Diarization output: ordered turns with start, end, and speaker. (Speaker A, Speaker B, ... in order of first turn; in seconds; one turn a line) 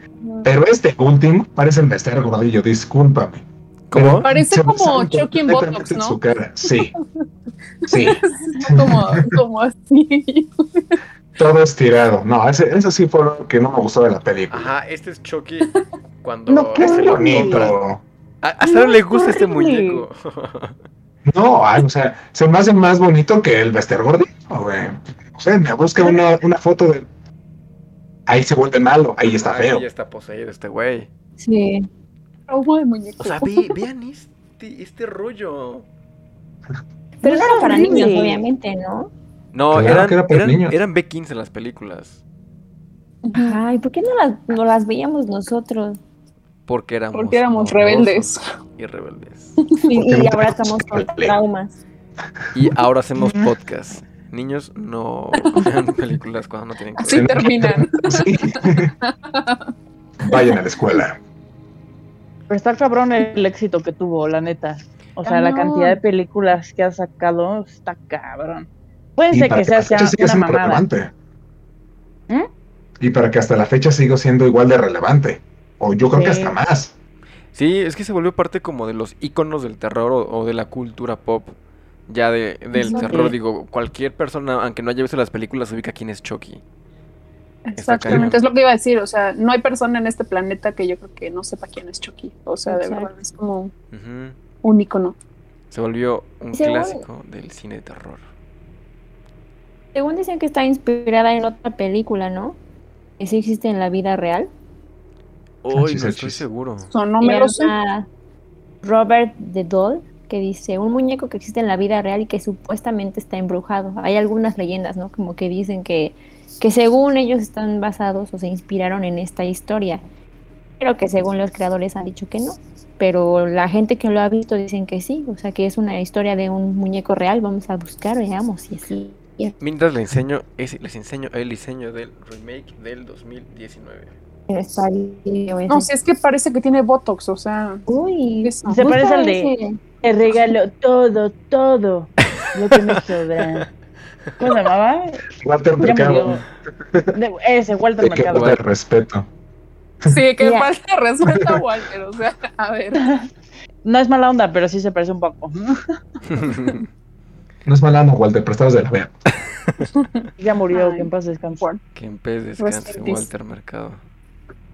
Speaker A: 0.5-6.9
Speaker B: 3.9-4.3
Speaker C: 4.2-7.0
Speaker C: 7.9-11.0
Speaker A: 7.9-9.4
Speaker A: 11.4-14.7
Speaker B: 14.5-15.7
Speaker B: 16.2-17.8
Speaker D: 16.5-17.7
Speaker A: 16.8-18.0
Speaker B: 18.4-20.8
Speaker D: 18.6-20.1
Speaker A: 21.2-27.1
Speaker A: 28.3-29.9
Speaker B: 29.4-31.1
Speaker E: 31.4-31.9
Speaker C: 32.5-33.8
Speaker B: 33.2-35.9
Speaker C: 37.2-38.1
Speaker E: 37.2-39.1
Speaker D: 37.2-38.4
Speaker B: 39.5-42.2
Speaker A: 39.7-40.8
Speaker C: 43.2-43.6
Speaker E: 43.3-46.0
Speaker B: 46.7-49.6
Speaker C: 47.1-48.5
Speaker C: 49.6-49.9
Speaker E: 49.9-51.7
Speaker A: 49.9-51.4
Speaker B: 52.5-57.5
Speaker A: 52.6-53.5
Speaker C: 55.4-55.7
Speaker C: 57.0-59.7
Speaker A: 57.1-58.9
Speaker A: 60.2-61.2
Speaker C: 60.2-60.6
Speaker D: 62.5-70.8
Speaker C: 65.2-66.0
Speaker A: 69.3-71.1
Speaker A: 73.0-76.9
Speaker D: 76.1-76.6
Speaker B: 77.5-81.5
Speaker B: 82.1-86.6
Speaker D: 82.8-83.3
Speaker C: 87.7-93.7
Speaker B: 87.8-88.4
Speaker E: 92.7-93.1
Speaker B: 93.9-94.4
Speaker C: 94.6-95.2
Speaker B: 95.7-98.2
Speaker E: 96.5-97.0
Speaker E: 100.0-102.6
Speaker E: 103.2-104.5
Speaker B: 105.6-106.9
Speaker A: 105.7-106.4
Speaker C: 106.9-107.7
Speaker E: 107.2-108.1
Speaker E: 108.8-120.0
Speaker E: 120.8-129.6
Speaker B: 129.6-134.1
Speaker E: 134.5-135.9
Speaker C: 135.7-137.8
Speaker E: 137.9-139.8
Speaker C: 138.4-138.8
Speaker D: 138.7-143.7
Speaker B: 142.7-143.6
Speaker D: 144.4-145.2
Speaker A: 145.4-147.2
Speaker D: 145.8-146.4
Speaker D: 147.1-148.5
Speaker A: 148.0-149.3
Speaker B: 148.3-148.6
Speaker C: 150.1-153.0
Speaker E: 150.4-150.7
Speaker A: 151.3-151.6
Speaker D: 153.8-155.8
Speaker B: 156.3-156.9
Speaker A: 157.7-159.2
Speaker C: 159.9-161.8
Speaker D: 160.4-161.6
Speaker B: 161.9-164.0
Speaker C: 162.6-163.3